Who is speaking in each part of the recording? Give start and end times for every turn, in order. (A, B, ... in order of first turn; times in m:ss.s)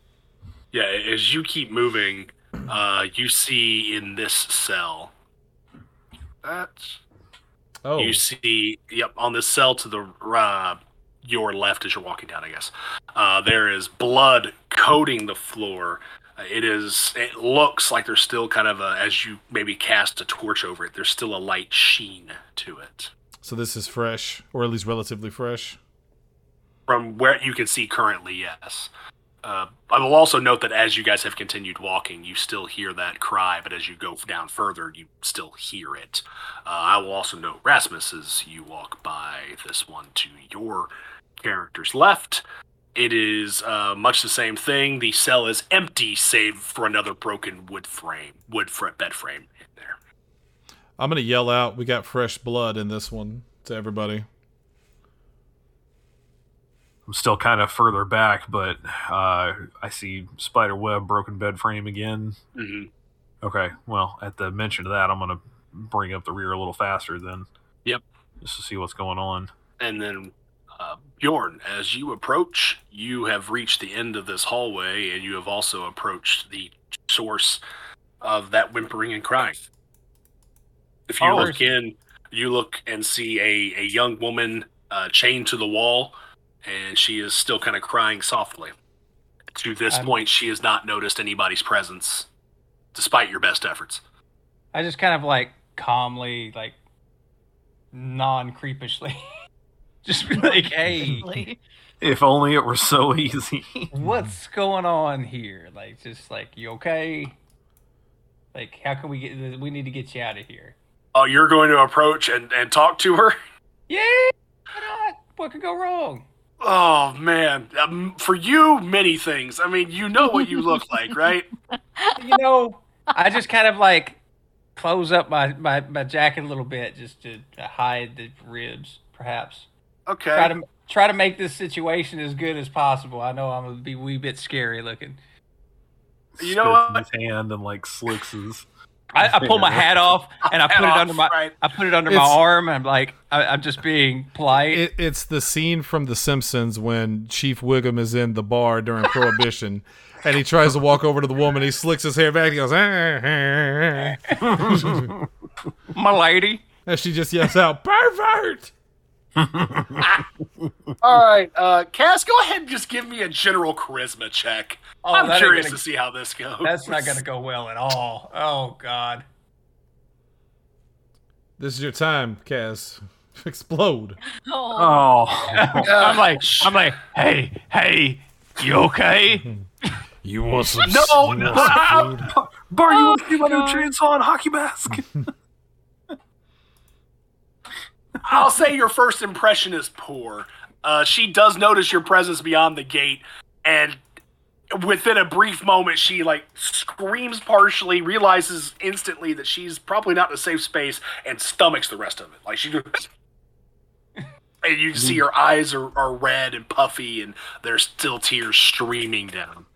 0:00.7-0:05.1 A
0:06.4-0:07.0 A
0:07.8-0:08.2 B
0:08.0-0:23.1 A
0:23.4-0:25.8 B
0:26.9-0:28.9 A
0:29.4-0:42.4 A
0:42.9-0:50.0 A
0:51.0-0:54.2 B
0:57.0-1:02.4 C
1:02.5-1:02.9 A
1:03.4-1:07.5 C
1:08.4-1:09.5 C
1:09.8-1:17.6 A
1:18.2-1:19.6 A
1:21.1-1:28.7 A
1:21.2-1:21.5 C
1:21.2-1:21.7 D
1:29.5-1:32.3 A
1:29.9-1:30.2 D
1:32.9-1:34.0 A
1:34.7-1:36.8 D
1:37.9-1:39.2 D
1:40.0-1:41.3 D
1:41.0-1:41.6 E
1:42.0-1:43.9 C
1:43.9-1:47.4 D
1:48.5-1:50.7 D
1:51.1-1:53.4 A
1:53.9-1:56.2 D
1:56.6-2:01.5 A
2:02.2-2:04.2 D
2:04.8-2:09.7 D
2:10.1-2:10.5 A
2:10.3-2:15.2 D
2:16.4-2:18.6 C
2:16.4-2:17.0 A
2:19.1-2:24.8 D
2:19.2-2:19.9 C
2:20.5-2:21.5 A
2:22.1-2:22.4 B
2:24.7-2:35.1 B
2:34.0-2:34.8 D
2:34.4-2:35.3 C
2:35.9-2:36.6 D
2:36.8-2:38.7 B
2:39.4-2:40.9 C
2:41.0-2:47.2 A
2:45.0-2:45.8 D
2:46.6-2:49.2 D
2:51.6-2:54.2 B
2:54.4-2:55.0 E
2:54.7-2:56.0 C
2:55.5-2:59.5 D
2:55.8-2:56.7 A
3:00.2-3:02.3 B
3:00.8-3:02.3 A
3:01.5-3:05.2 C
3:02.9-3:03.9 E
3:08.2-3:14.0 A
3:14.7-3:23.1 A
3:24.6-3:29.6 A
3:24.9-3:25.2 C